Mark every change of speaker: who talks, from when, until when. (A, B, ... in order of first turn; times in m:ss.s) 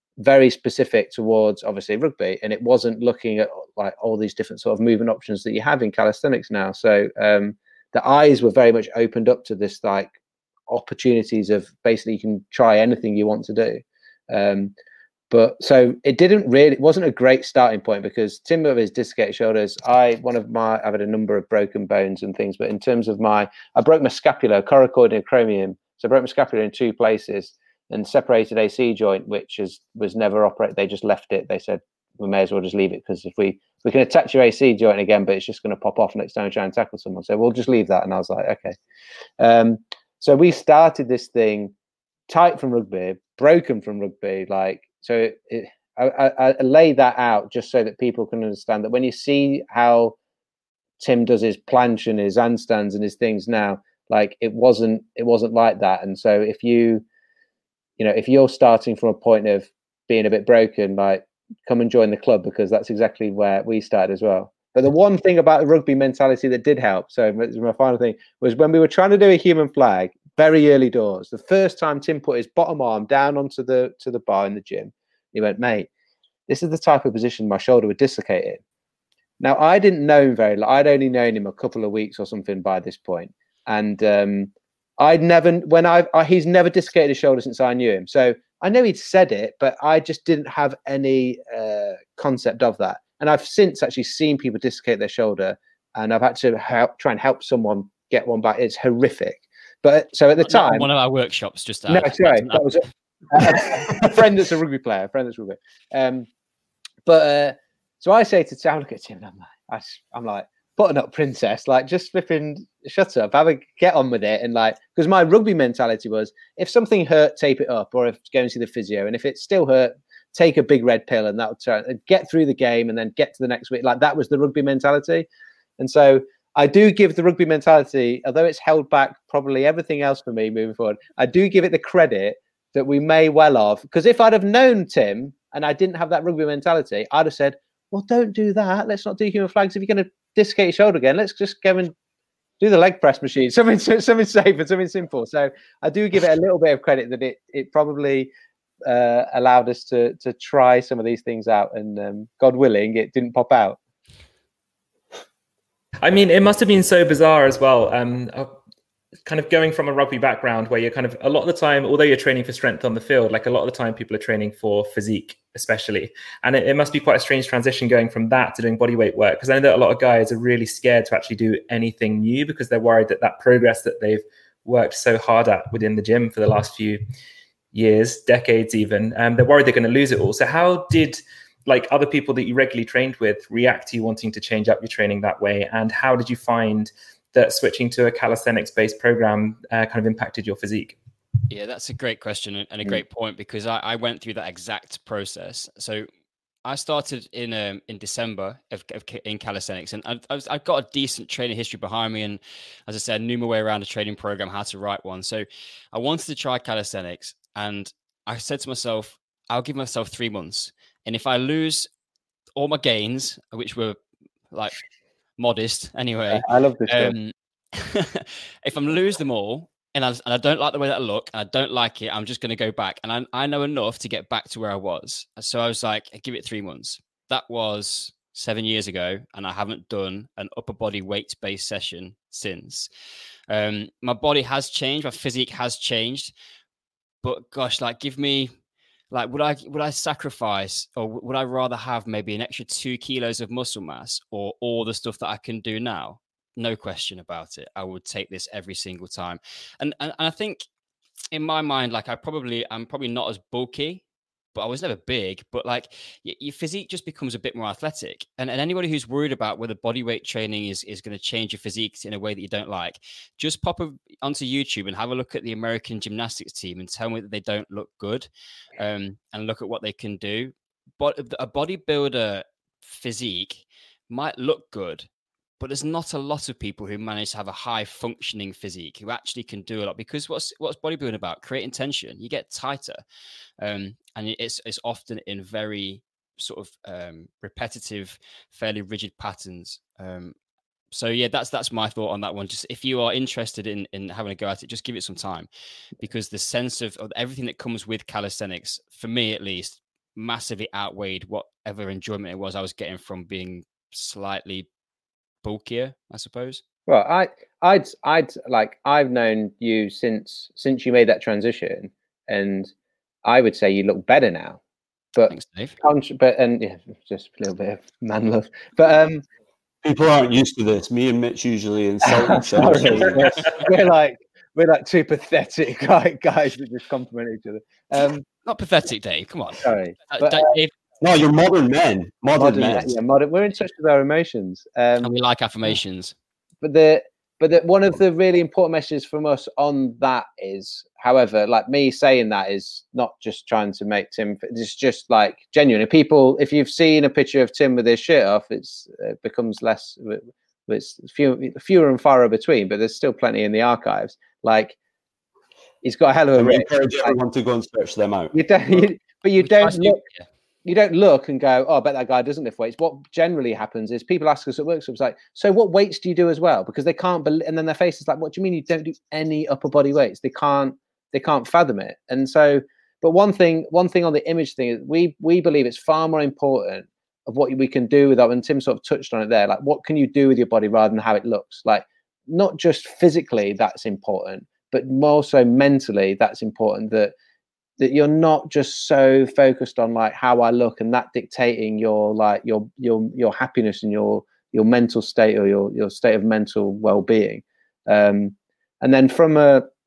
0:00.2-0:10.1 A
0:10.7-0:14.7 A
0:15.3-0:38.8 A
0:39.4-0:41.7 A
0:42.3-0:50.2 A
0:51.0-0:57.0 A
0:58.0-1:15.9 A
1:16.5-1:18.6 A
1:19.4-1:40.9 A
1:40.4-1:42.8 B
1:41.9-1:46.3 A
1:47.1-2:05.3 A
2:05.8-2:21.9 A
2:22.6-2:28.3 A
2:28.9-2:33.8 A
2:36.0-2:38.5 C
2:39.3-2:57.0 C
2:57.7-3:11.0 C
3:11.5-3:16.1 B
3:16.6-3:31.9 B
3:32.6-3:34.0 B
3:34.5-3:34.8 B
3:35.4-3:52.9 B
3:36.3-3:37.2 A
3:53.5-3:56.3 B
3:57.2-3:58.5 B
3:59.1-4:10.6 B
4:11.3-4:14.0 B
4:14.5-4:35.1 B
4:35.6-4:43.0 B
4:43.6-4:50.3 B
4:50.9-4:55.5 B
4:56.0-5:04.7 B
5:05.4-5:06.6 B
5:06.9-5:12.7 A
5:13.2-5:14.6 A
5:15.2-5:19.2 A
5:15.3-5:15.8 B
5:19.8-5:23.3 D
5:22.1-5:28.3 A
5:28.4-5:30.7 B
5:29.6-5:30.5 A
5:31.0-5:33.0 D
5:32.4-5:35.1 A
5:35.0-5:36.2 B
5:36.6-5:54.8 A
5:55.8-5:57.2 A
5:56.4-5:58.4 D
5:58.3-6:00.0 A
5:59.4-6:00.3 B
6:00.6-6:27.1 A
6:27.8-6:39.7 A